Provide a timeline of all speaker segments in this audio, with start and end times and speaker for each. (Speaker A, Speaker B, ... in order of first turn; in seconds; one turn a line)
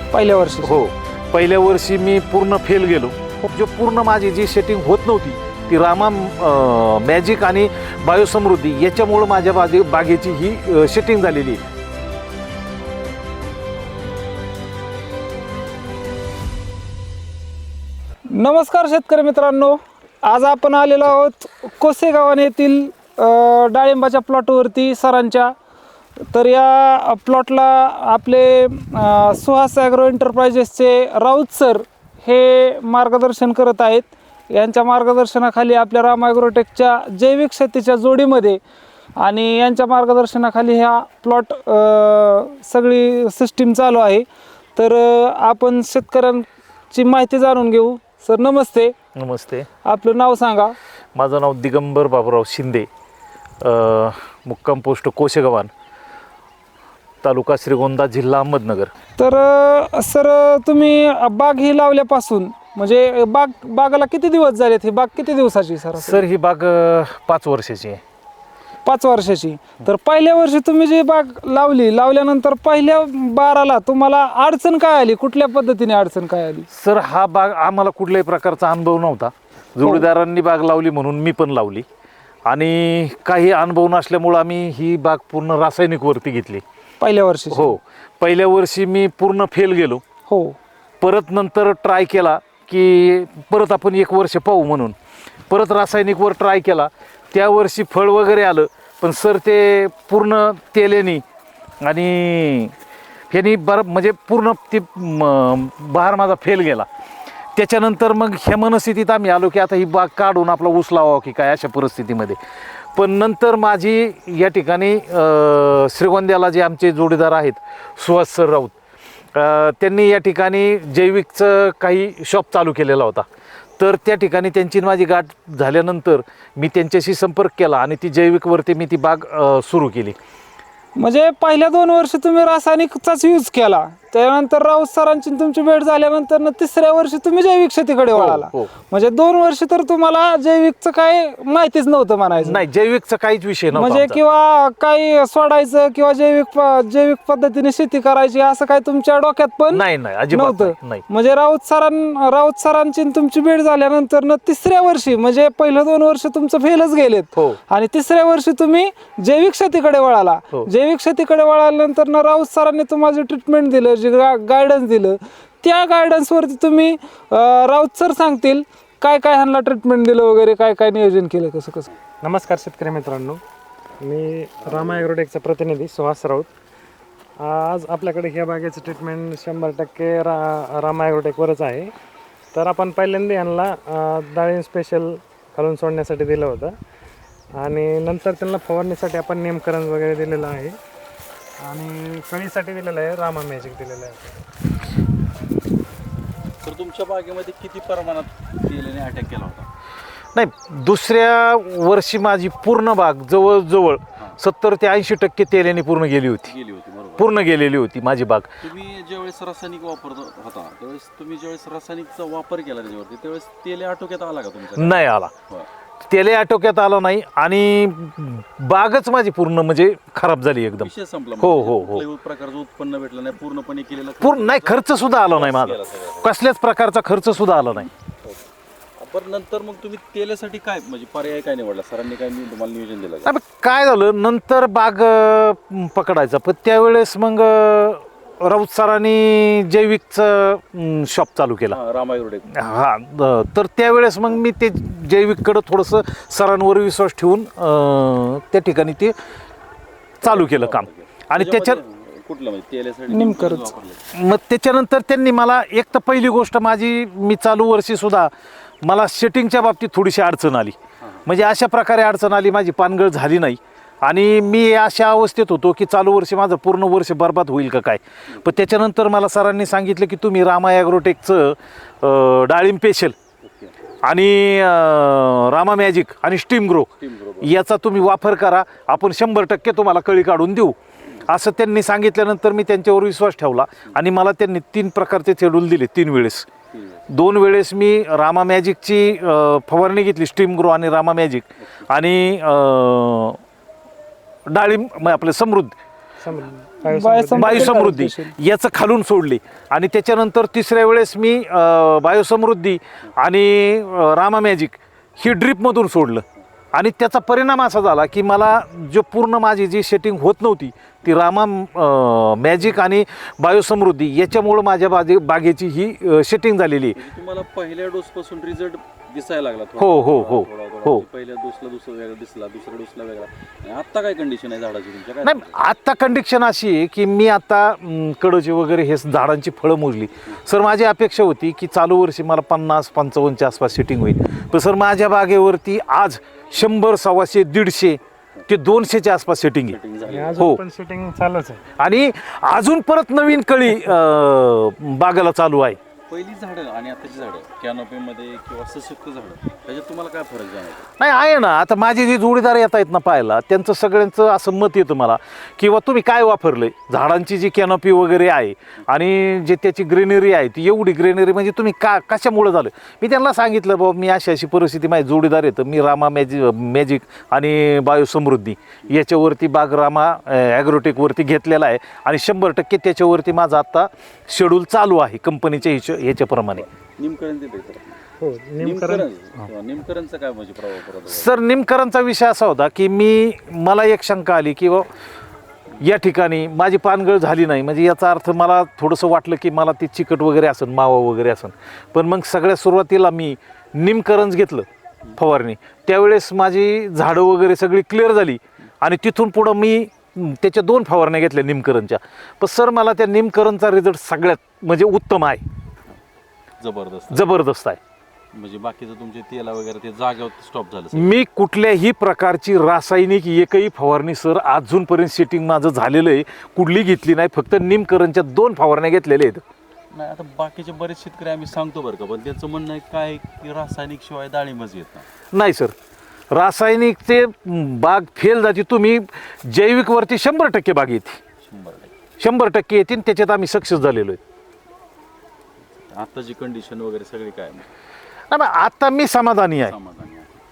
Speaker A: 0.1-0.8
Speaker B: 0.6-11.6
Speaker A: 18.4-25.5
Speaker A: 26.3-38.6
Speaker A: 39.2-48.9
Speaker B: 49.2-49.7
Speaker A: 49.9-50.8
Speaker B: 51.1-52.9
Speaker B: 53.6-55.7
Speaker B: 57.2-58.9
Speaker A: 59.2-66.3
Speaker B: 66.0-68.0
Speaker A: 68.8-76.7
Speaker B: 76.7-81.8
Speaker B: 82.5-86.6
Speaker A: 87.0-87.8
Speaker B: 87.5-90.0
Speaker A: 90.3-90.5
Speaker B: 91.0-95.0
Speaker B: 95.5-101.2
Speaker B: 101.8-102.7
Speaker B: 103.3-106.9
Speaker B: 107.6-112.4
Speaker B: 113.0-118.7
Speaker B: 119.3-123.2
Speaker B: 123.8-130.2
Speaker A: 131.0-142.6
Speaker B: 138.1-138.7
Speaker B: 142.4-144.2
Speaker A: 143.7-171.9
Speaker B: 149.7-151.0
Speaker C: 172.2-173.4
Speaker C: 174.0-176.5
Speaker D: 174.6-175.0
Speaker C: 177.4-181.9
Speaker C: 182.5-186.8
Speaker C: 187.6-190.8
Speaker C: 191.6-194.3
Speaker D: 196.6-199.7
Speaker B: 200.3-206.5
Speaker D: 206.5-207.4
Speaker B: 207.2-208.6
Speaker D: 208.6-215.7
Speaker B: 214.8-215.3
Speaker B: 216.1-222.1
Speaker D: 220.8-226.3
Speaker B: 224.2-227.9
Speaker D: 229.0-233.3
Speaker B: 233.2-241.8
Speaker D: 241.7-242.5
Speaker B: 242.5-249.2
Speaker B: 250.2-251.8
Speaker D: 250.2-254.1
Speaker A: 253.1-253.7
Speaker B: 254.1-258.3
Speaker B: 258.8-273.1
Speaker D: 268.3-268.6
Speaker D: 273.4-273.7
Speaker B: 274.0-280.8
Speaker D: 277.0-277.5
Speaker B: 281.3-286.5
Speaker D: 286.7-287.1
Speaker B: 287.1-293.4
Speaker B: 294.5-295.8
Speaker C: 296.2-297.7
Speaker A: 296.8-298.4
Speaker B: 297.4-317.0
Speaker D: 317.0-325.6
Speaker B: 319.8-321.1
Speaker B: 325.2-339.8
Speaker D: 339.7-340.5
Speaker C: 340.1-341.6
Speaker B: 340.4-340.6
Speaker B: 341.8-345.8
Speaker D: 346.1-350.9
Speaker B: 351.0-376.7
Speaker D: 376.5-378.0
Speaker C: 378.2-379.1
Speaker D: 378.6-381.3
Speaker B: 381.1-384.9
Speaker B: 385.8-405.4
Speaker D: 406.6-407.3
Speaker B: 407.1-407.8
Speaker D: 408.3-411.2
Speaker B: 410.9-419.4
Speaker D: 419.9-425.1
Speaker B: 425.3-425.7
Speaker B: 426.3-431.2
Speaker D: 431.4-431.9
Speaker B: 432.2-434.2
Speaker D: 435.9-437.7
Speaker B: 438.3-439.8
Speaker D: 439.6-440.3